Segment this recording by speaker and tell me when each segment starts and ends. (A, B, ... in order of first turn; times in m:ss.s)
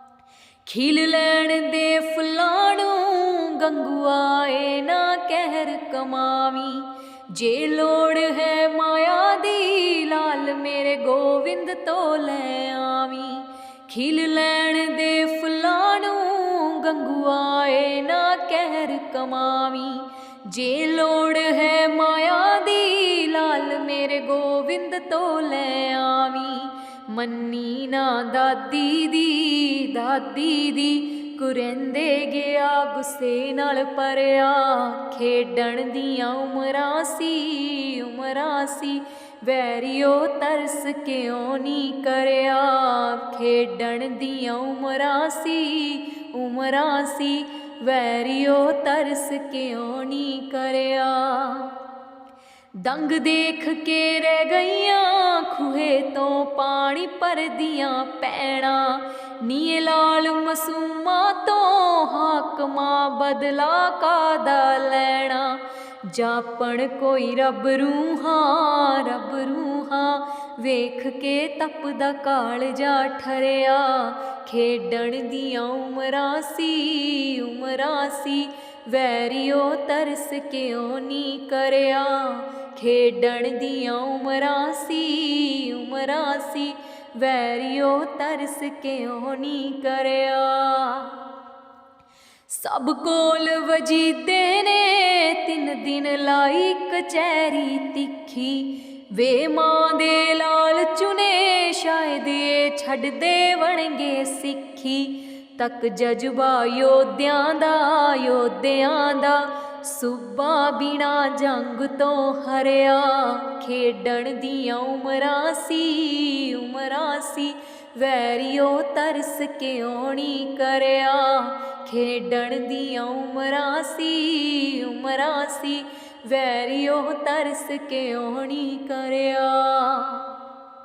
0:00.6-0:51.8 A
0:52.8-1:31.2 A
1:32.5-2:10.3 A